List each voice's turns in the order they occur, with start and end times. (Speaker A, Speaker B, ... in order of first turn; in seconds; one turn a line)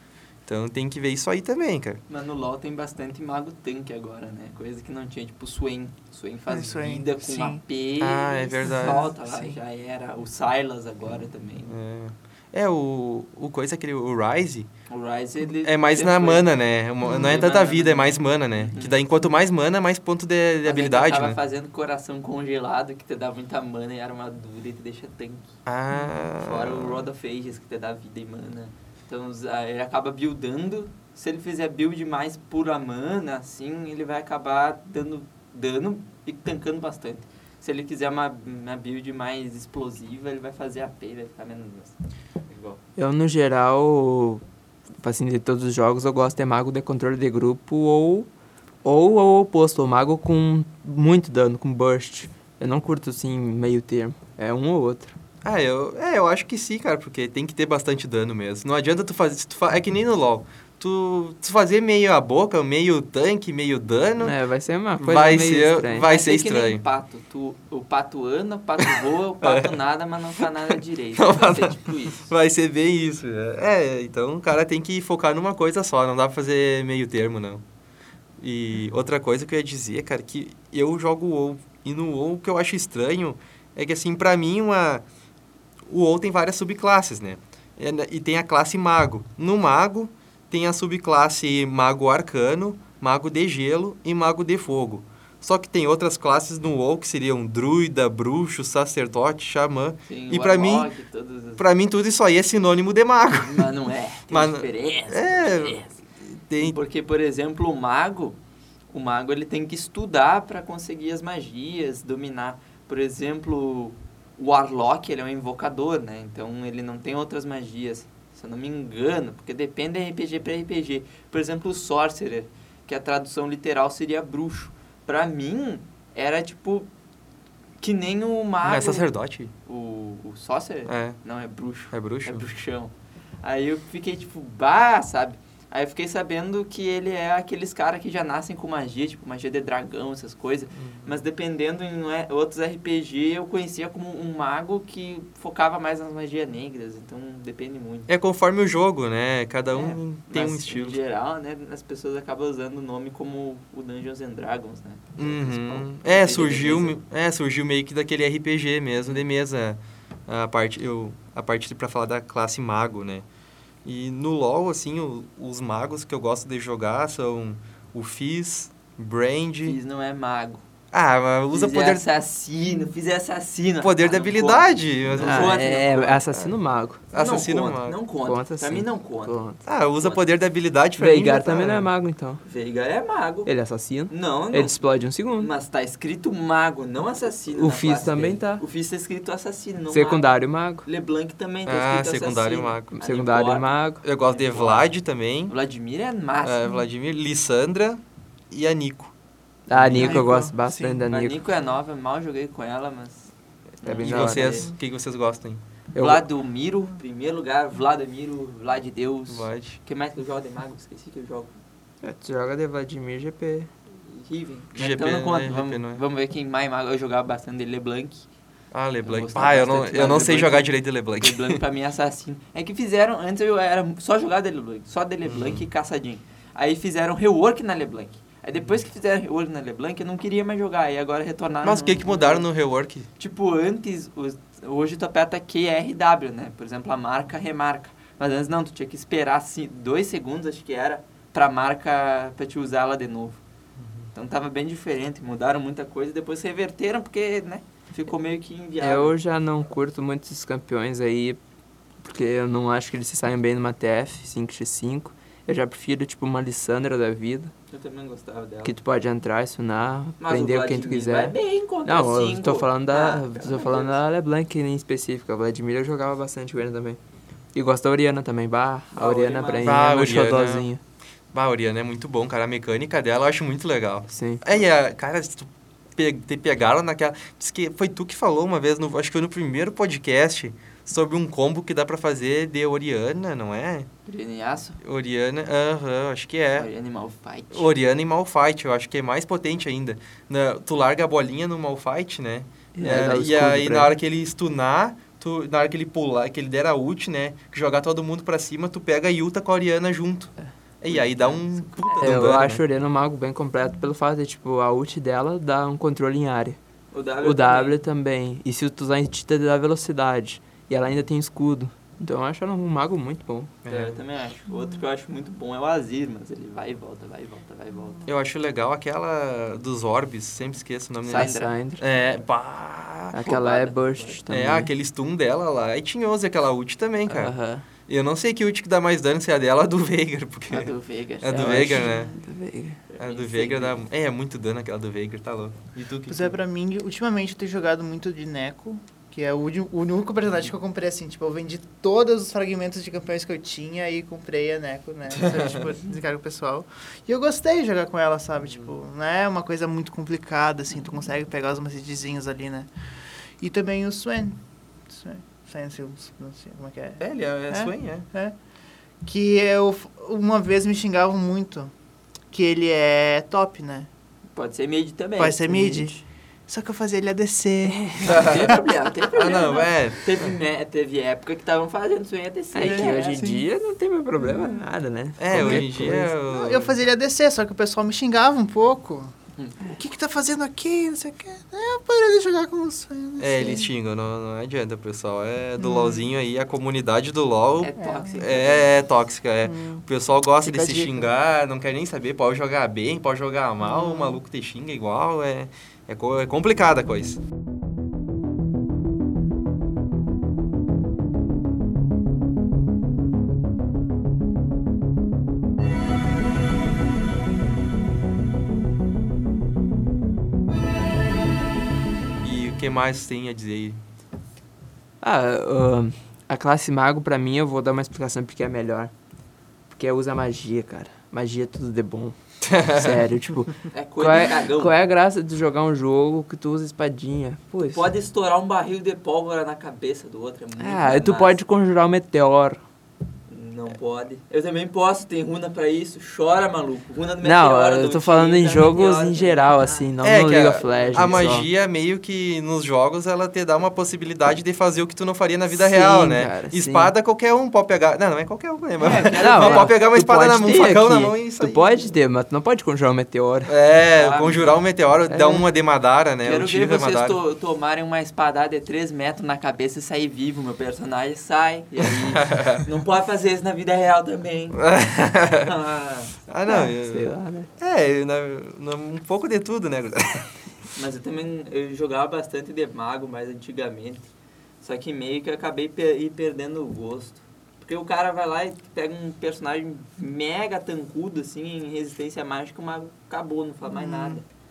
Speaker A: 0.5-2.0
Speaker B: 2.1-11.7
Speaker C: 6.5-7.6
Speaker A: 8.0-9.1
Speaker C: 8.7-9.6
Speaker A: 11.7-14.7
Speaker B: 14.9-19.0
Speaker A: 15.6-21.4
Speaker C: 17.0-17.3
Speaker B: 20.6-25.6
Speaker A: 25.6-27.0
Speaker B: 26.4-42.8
Speaker D: 43.0-44.4
Speaker D: 45.0-48.3
Speaker D: 48.8-55.1
Speaker A: 55.4-64.4
Speaker D: 64.2-66.1
Speaker A: 65.0-66.8
Speaker B: 66.0-72.3
Speaker A: 68.8-69.8
Speaker A: 70.4-77.6
Speaker A: 78.4-85.0
Speaker A: 85.9-100.9
Speaker B: 100.1-101.6
Speaker A: 101.6-103.7
Speaker B: 103.4-105.9
Speaker A: 104.3-105.8
Speaker A: 106.5-106.8
Speaker B: 106.6-108.4
Speaker B: 108.9-126.9
Speaker B: 127.8-129.1
Speaker A: 128.6-129.5
Speaker B: 129.7-148.1
Speaker A: 130.9-131.2
Speaker A: 131.9-132.4
Speaker A: 140.8-141.1
Speaker A: 148.1-151.0
Speaker B: 149.7-157.0
Speaker A: 155.2-163.2
Speaker A: 163.8-169.8
Speaker B: 169.6-170.6
Speaker A: 170.9-172.1
Speaker B: 171.5-176.2
Speaker A: 173.8-176.5
Speaker D: 175.2-177.0
Speaker A: 177.1-177.9
Speaker B: 177.1-179.4
Speaker D: 178.2-179.6
Speaker A: 179.6-181.9
Speaker D: 181.0-182.4
Speaker B: 182.4-183.5
Speaker D: 183.4-185.5
Speaker B: 184.1-184.8
Speaker B: 185.4-194.9
Speaker D: 187.5-188.6
Speaker D: 189.9-190.8
Speaker A: 191.7-192.9
Speaker D: 192.9-194.0
Speaker A: 194.0-195.5
Speaker B: 195.5-196.6
Speaker A: 196.4-199.1
Speaker D: 199.7-201.4
Speaker A: 199.7-200.2
Speaker B: 199.9-200.2
Speaker C: 200.0-201.0
Speaker B: 201.1-203.3
Speaker B: 203.8-204.7
Speaker A: 203.9-205.6
Speaker D: 203.9-204.7
Speaker D: 205.9-206.2
Speaker B: 205.9-211.6
Speaker A: 209.3-209.8
Speaker D: 212.0-213.7
Speaker B: 214.0-218.3
Speaker A: 214.8-216.0
Speaker A: 218.7-221.6
Speaker B: 219.0-232.5
Speaker A: 225.2-225.6
Speaker A: 231.6-233.1
Speaker B: 233.2-243.4
Speaker B: 244.1-249.2
Speaker D: 248.8-251.4
Speaker D: 252.0-257.5
Speaker B: 257.7-258.7
Speaker D: 258.6-267.0
Speaker B: 260.2-264.0
Speaker D: 267.5-270.8
Speaker B: 268.9-270.1
Speaker A: 269.6-270.7
Speaker A: 271.3-283.9
Speaker D: 274.1-274.4
Speaker B: 284.1-284.8
Speaker A: 284.8-286.7
Speaker B: 286.6-287.7
Speaker A: 287.5-302.6
Speaker D: 292.7-293.9
Speaker B: 300.9-302.5
Speaker D: 302.0-306.6
Speaker B: 306.9-307.8
Speaker D: 307.2-313.5
Speaker A: 313.6-314.0
Speaker B: 313.6-318.0
Speaker A: 318.1-323.3
Speaker B: 321.1-321.5
Speaker D: 321.1-321.8
Speaker D: 323.1-324.7
Speaker B: 323.2-324.4
Speaker A: 324.3-327.3
Speaker D: 327.1-327.6
Speaker A: 327.9-332.1
Speaker B: 330.5-331.9
Speaker D: 331.3-332.8
Speaker B: 332.9-333.8
Speaker A: 333.0-336.4
Speaker C: 336.1-352.7
Speaker A: 345.1-345.7
Speaker C: 353.4-358.3
Speaker A: 357.0-358.1
Speaker C: 359.0-361.7
Speaker C: 362.3-363.9
Speaker B: 364.3-365.9
Speaker C: 365.2-368.4
Speaker D: 367.6-368.3
Speaker A: 368.0-368.6
Speaker B: 368.1-373.3
Speaker A: 369.1-370.3
Speaker D: 372.5-376.1
Speaker C: 372.6-373.4
Speaker C: 374.2-374.6
Speaker A: 375.2-376.8
Speaker C: 375.3-379.1
Speaker B: 379.4-379.6
Speaker C: 379.6-383.7
Speaker A: 383.2-397.2
Speaker C: 385.6-386.1
Speaker B: 387.6-388.9
Speaker C: 387.8-388.2
Speaker C: 389.4-389.8
Speaker D: 390.4-391.0
Speaker C: 393.6-394.2
Speaker A: 412.2-413.8
Speaker D: 415.0-418.9
Speaker D: 419.7-427.9
Speaker A: 422.4-423.0
Speaker B: 423.7-424.7
Speaker B: 427.7-431.4
Speaker D: 430.6-432.6
Speaker B: 433.3-439.9
Speaker D: 437.2-441.4
Speaker A: 440.0-451.7
Speaker B: 440.5-441.4
Speaker D: 445.5-446.9
Speaker B: 448.8-449.7
Speaker D: 449.0-453.5
Speaker A: 453.5-457.2
Speaker B: 453.9-454.6
Speaker D: 455.1-455.4
Speaker B: 456.2-464.7
Speaker A: 462.1-462.6
Speaker A: 464.6-465.5
Speaker B: 465.4-466.1
Speaker A: 466.3-470.3
Speaker D: 466.4-467.5
Speaker B: 470.7-484.2
Speaker C: 483.7-484.2